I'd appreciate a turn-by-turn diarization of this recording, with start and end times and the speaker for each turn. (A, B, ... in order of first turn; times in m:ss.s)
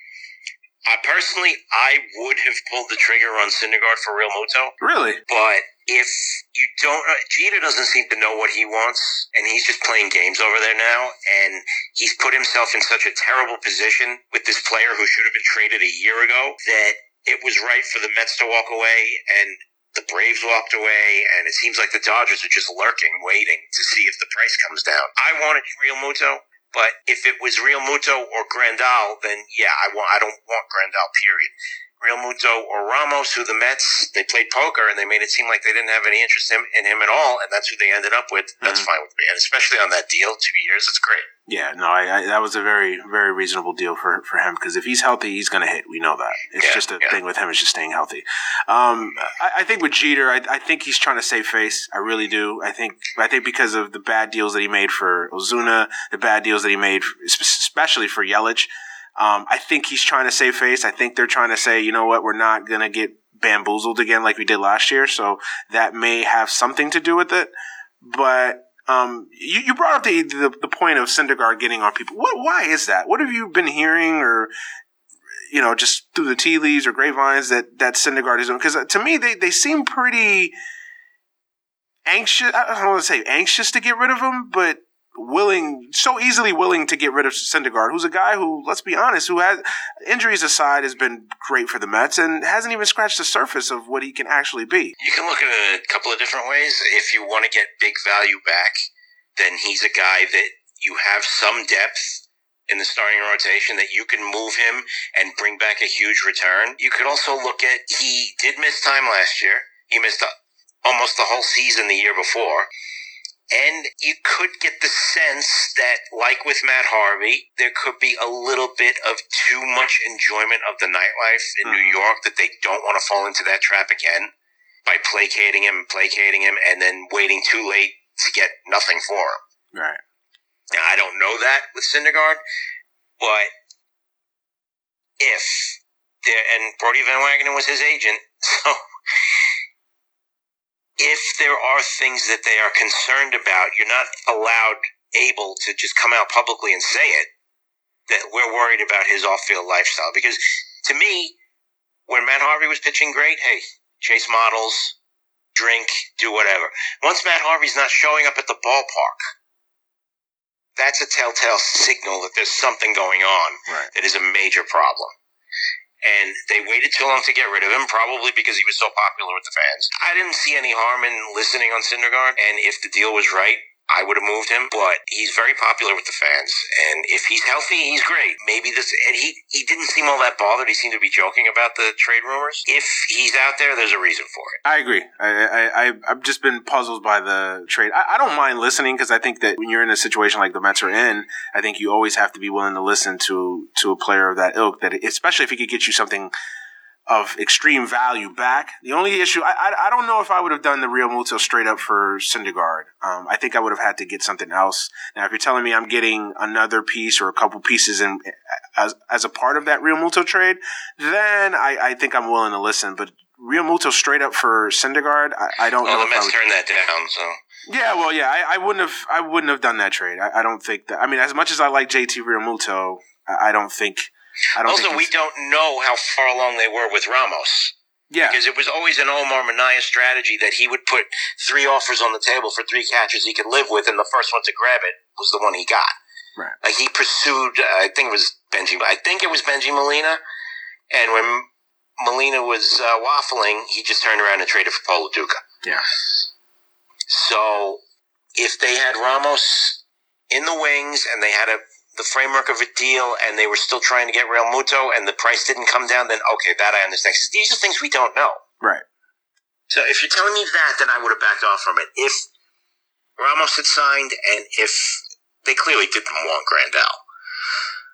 0:00.9-0:04.8 A
0:04.8-0:05.2 B
0:05.3-0:41.3 A
0:38.6-0:38.9 B
0:41.5-1:14.5 B
0:46.6-0:47.2 A
1:15.5-1:20.5 B
1:22.1-1:35.0 B
1:35.0-1:38.8 A
1:39.4-1:50.3 A
1:50.8-1:52.7 A
1:53.5-2:04.3 A
2:01.6-2:02.0 B
2:04.8-2:09.4 A
2:09.7-2:10.0 B
2:10.7-2:12.4 A
2:13.2-2:13.5 A
2:15.2-2:18.8 A
2:21.0-2:27.3 A
2:28.1-2:31.4 A
2:32.1-2:35.0 A
2:35.5-2:39.2 A
2:40.8-2:45.1 A
2:46.0-3:04.6 A
3:04.6-3:16.3 B
3:17.1-3:36.4 B
3:35.8-3:37.4 A
3:37.7-3:45.1 B
3:44.6-3:47.7 A
3:48.1-3:48.4 B
3:48.3-3:55.9 A
3:56.6-4:00.2 A
4:00.9-4:01.5 A
4:02.0-4:05.4 A
4:07.1-4:07.8 A
4:08.4-4:18.4 A
4:19.7-4:22.3 A
4:23.2-4:27.0 A